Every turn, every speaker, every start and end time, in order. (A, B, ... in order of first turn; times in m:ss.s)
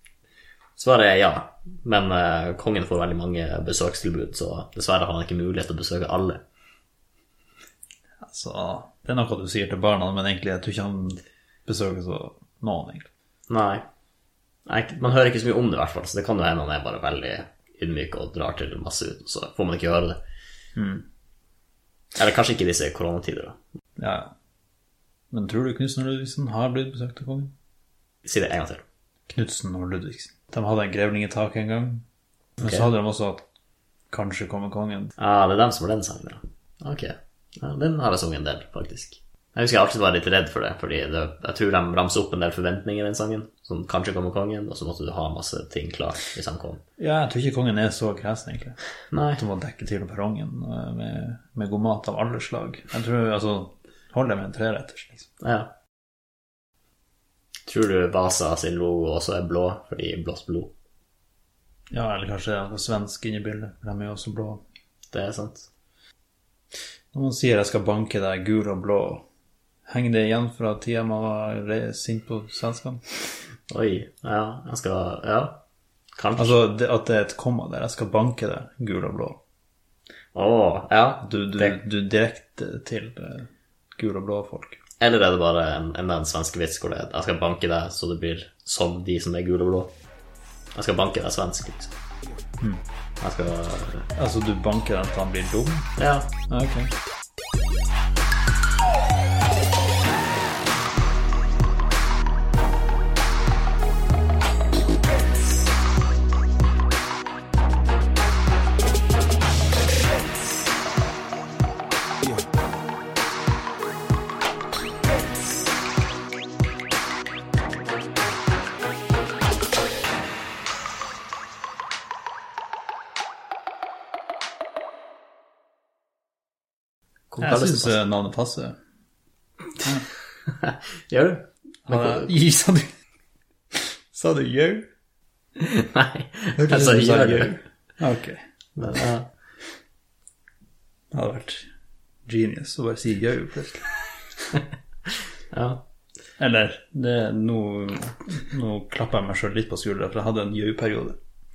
0:00.8-0:06.4 A
0:08.2-0:13.1 B
0:13.5-0:13.8 A
0:14.7-0:20.2 A
0:20.8-0:21.0 B
0:22.2-0:23.6 A
0:24.0-0:24.3 B
0:25.3-0:27.5 B
0:28.2-0:28.8 A
0:29.3-0:32.0 B
0:32.6-0:32.9 A
0:32.6-0:33.4 B
0:34.1-0:35.1 B
0:35.2-0:46.8 A
0:47.0-0:48.8 B
0:49.1-0:49.4 A
0:49.4-0:55.3 B
0:55.4-0:55.7 A
0:57.7-1:00.7 A
1:01.9-1:04.6 B
1:05.1-1:05.7 A
1:07.1-1:09.2 B
1:09.9-1:13.0 B
1:13.7-1:15.6 A
1:16.2-1:16.6 A
1:16.4-1:19.4 B
1:20.3-1:21.8 A
1:21.2-1:24.8 B
1:25.0-1:29.9 A
1:30.7-1:31.9 A
1:33.2-1:34.1 A
1:34.2-1:36.0 B
1:36.0-1:36.3 A
1:36.5-1:36.9 B
2:07.3-2:07.9 A
2:07.4-2:08.8 B
2:10.5-2:12.3 A
2:11.9-2:12.9 B
2:14.2-2:14.8 A
2:14.3-2:14.8 B
2:15.6-2:17.6 A
2:16.6-2:18.4 B
2:18.8-2:19.3 A
2:21.1-2:21.7 B
2:22.3-2:23.9 B
2:25.5-2:25.8 A
2:26.4-2:31.2 B